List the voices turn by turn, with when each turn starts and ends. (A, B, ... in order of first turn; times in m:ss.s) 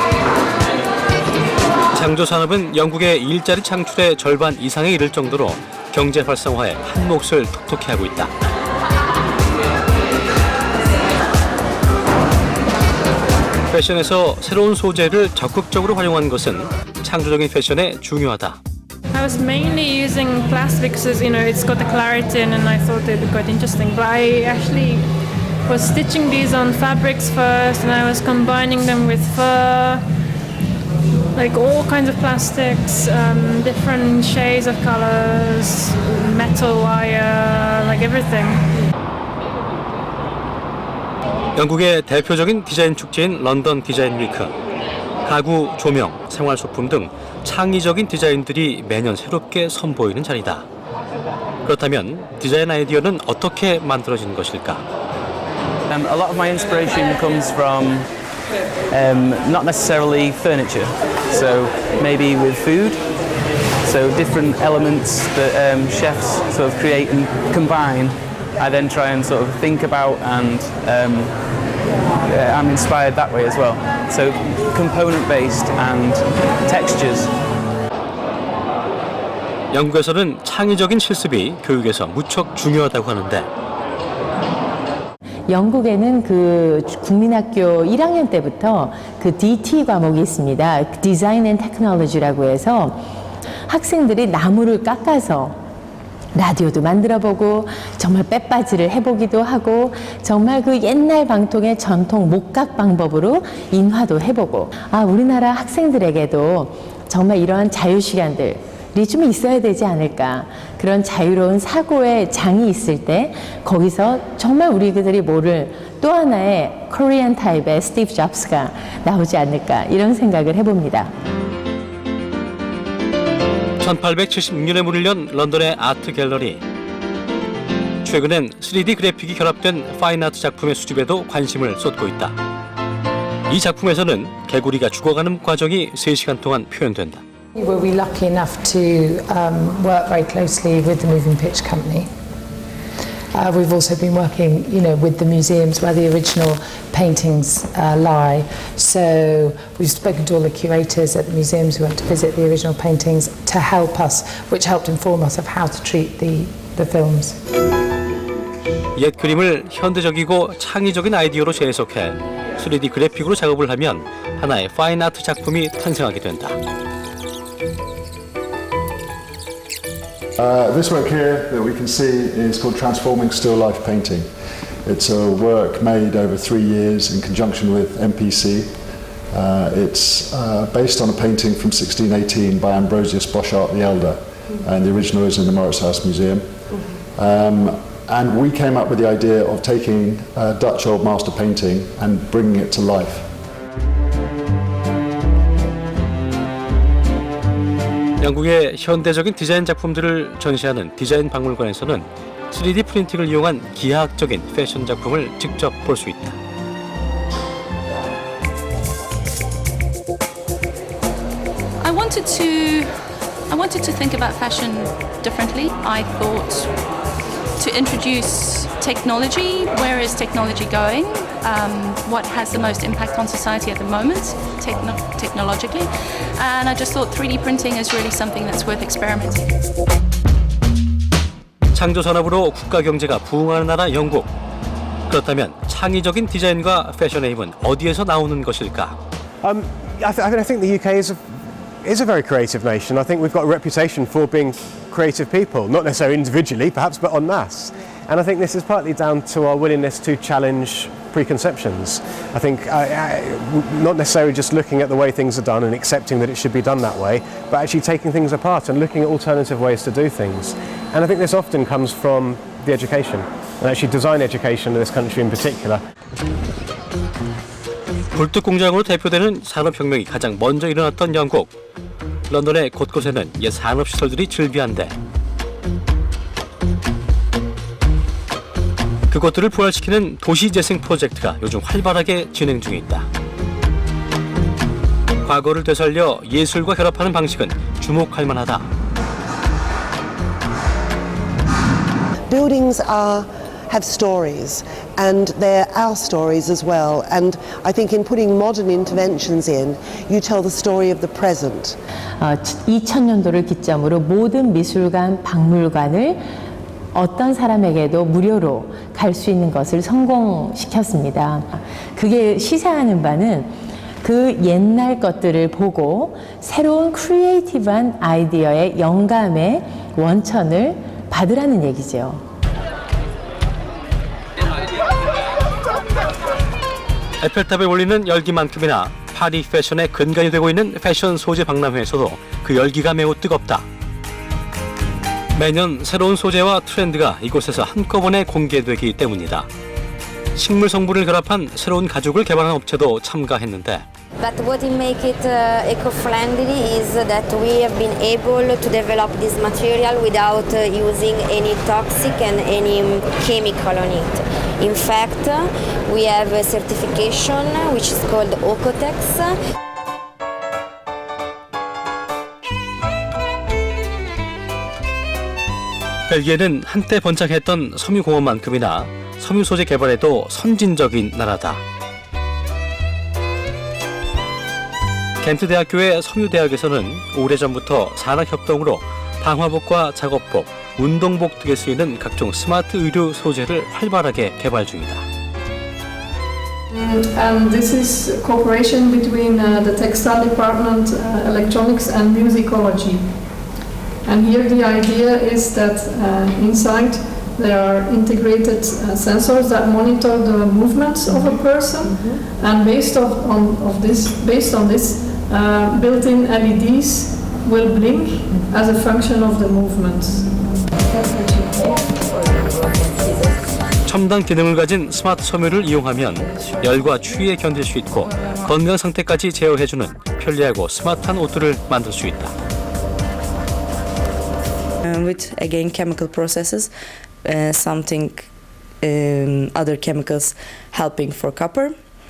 0:01.9-0:08.5 A
0:13.7-0:18.6 A
0:19.1-0:30.1 B
0:31.3-0:38.6 B
0:41.6-0:44.6 A
0:45.2-0:50.7 A
0:51.6-0:54.8 A
0:55.9-0:58.1 C
0:58.9-1:11.4 C
1:12.2-1:17.4 C
1:19.7-1:23.5 A
1:25.5-1:33.0 D
1:33.7-1:35.6 D
1:36.3-2:01.1 D
2:03.8-2:06.6 A
2:08.0-2:12.4 A
2:13.5-2:17.2 A
2:17.5-2:22.1 E
2:23.3-2:37.4 E
2:38.9-2:46.6 A
2:50.4-3:13.4 F
3:18.2-3:26.4 A
3:31.8-3:36.8 G
3:37.6-3:49.5 G
3:51.7-3:54.3 A
3:55.1-3:59.0 A
3:59.4-4:25.8 H
4:28.1-4:31.5 A
4:32.3-4:35.0 A
4:39.1-4:43.1 A
4:45.2-4:48.7 A
4:52.3-5:01.8 I
5:02.2-5:06.3 D
5:06.9-5:22.2 D
5:27.2-5:33.7 A
5:35.4-5:39.5 A
5:40.4-5:43.8 A
5:44.2-5:59.3 J
6:06.1-6:11.6 A
6:15.2-6:25.0 A
6:26.7-6:33.5 K
6:34.0-6:51.8 K
6:53.8-7:02.3 A
7:04.9-7:06.7 F
7:07.2-7:08.2 F
7:08.8-7:10.3 F
7:10.9-7:11.7 F